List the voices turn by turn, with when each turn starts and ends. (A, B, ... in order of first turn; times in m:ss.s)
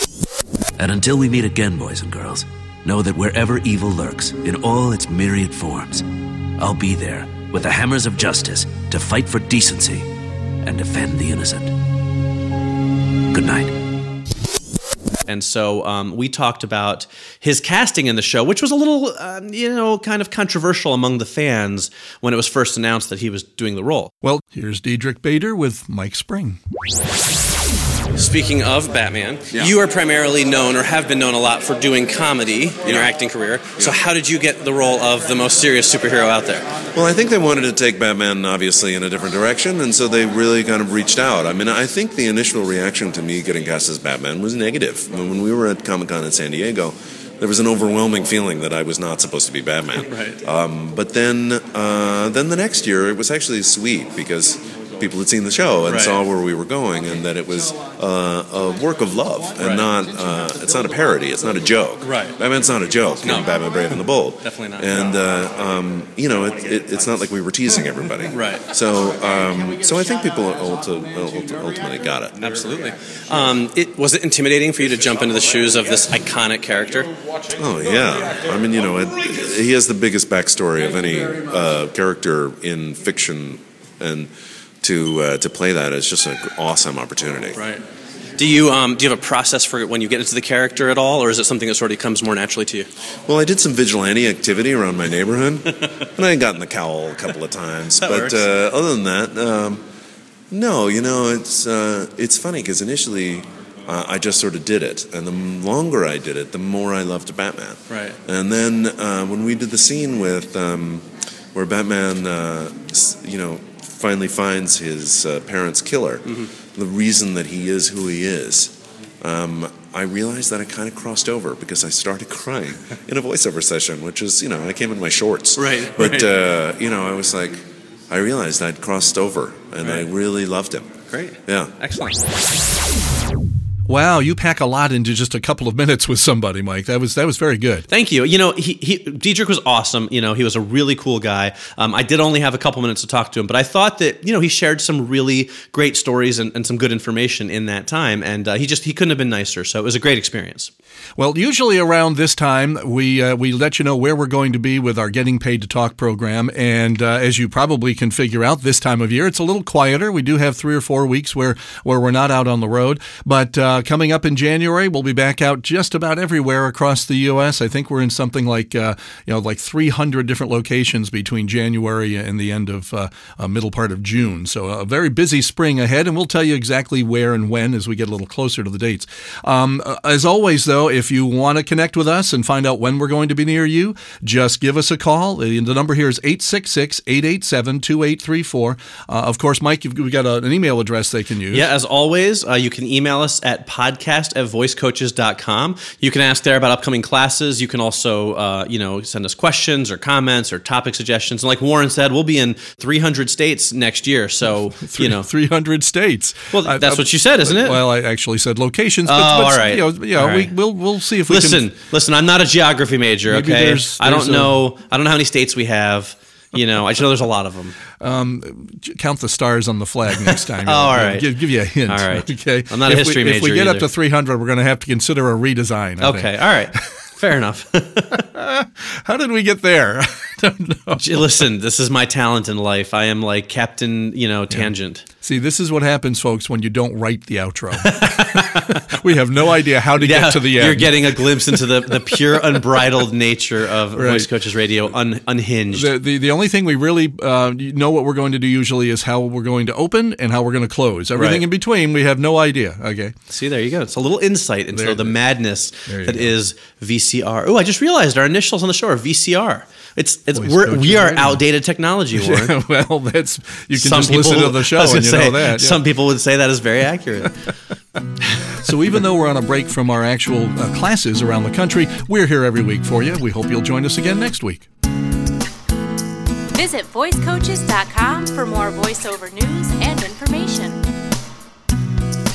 0:00.8-0:06.0 A
0:06.6-0:10.1 A
0:10.6-0:11.7 A
0:13.3-0:13.7 A
0:15.2-0:24.1 B
0:24.2-0:26.6 C
0:28.1-0:36.7 B
0:36.9-1:12.5 D
0:49.9-0:50.4 B
0:55.8-0:56.2 B
0:59.6-0:59.8 B
1:02.0-1:02.4 B
1:03.2-1:05.0 B
1:08.3-1:08.7 B
1:12.4-1:17.1 B
1:17.5-1:24.3 D
1:24.8-1:27.6 D
1:27.5-1:27.8 B
1:28.4-1:32.9 B
1:33.3-1:39.8 D
1:38.0-1:38.5 B
1:40.5-2:10.9 D
1:47.9-1:48.2 B
2:05.6-2:06.3 B
2:09.8-2:10.1 B
2:11.1-2:12.3 B
2:11.4-2:11.7 D
2:13.9-2:17.8 C
2:17.9-2:30.7 B
2:31.2-3:11.7 C
3:11.5-3:25.3 B
3:24.8-3:31.7 C
3:26.5-3:27.8 B
3:29.0-3:30.6 B
3:31.2-3:37.8 B
3:33.2-3:34.6 C
3:38.0-3:46.8 C
3:40.2-3:43.9 B
3:46.0-3:48.2 B
3:48.3-3:51.3 C
3:51.0-3:55.0 B
3:54.5-4:01.7 C
3:57.8-3:58.8 B
4:00.0-4:05.9 B
4:03.9-4:04.3 C
4:05.7-4:13.1 C
4:11.1-4:11.4 B
4:13.3-4:22.6 B
4:14.7-4:15.2 C
4:15.8-4:16.3 C
4:20.3-4:21.4 C
4:22.1-4:25.8 C
4:23.7-4:27.5 B
4:28.6-4:34.7 C
4:36.5-4:40.8 E